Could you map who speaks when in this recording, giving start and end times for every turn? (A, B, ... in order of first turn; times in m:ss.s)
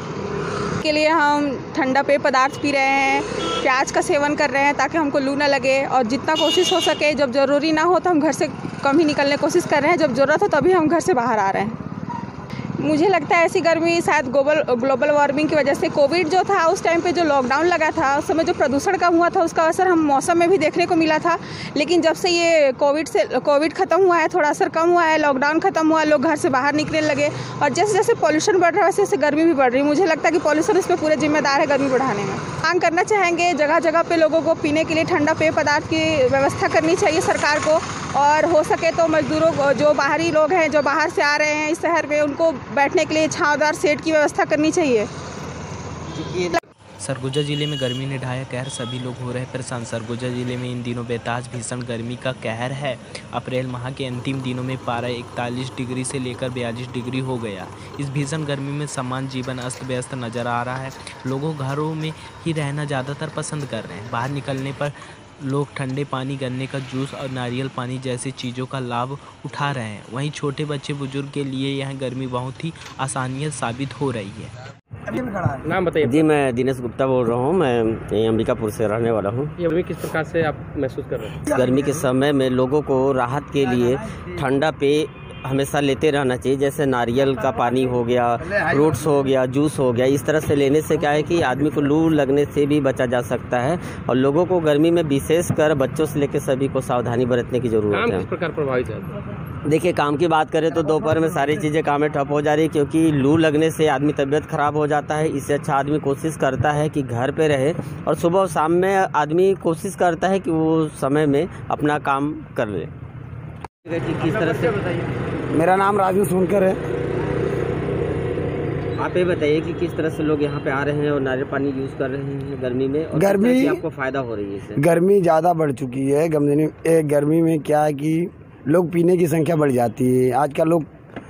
0:00.8-0:11.8 A
0:12.8-0:45.1 A
0:46.2-0:46.5 B
0:47.0-1:14.5 C
1:15.1-1:15.6 D
1:15.6-1:16.3 E
1:16.0-1:19.5 B
1:19.6-1:21.5 E
1:21.5-1:38.3 B
1:37.9-1:39.2 E
1:39.6-1:52.9 B
1:53.9-1:54.8 B
1:54.3-1:55.0 E
1:55.5-1:56.8 D
1:59.0-2:04.8 B
2:03.2-2:03.8 D
2:04.8-2:10.9 D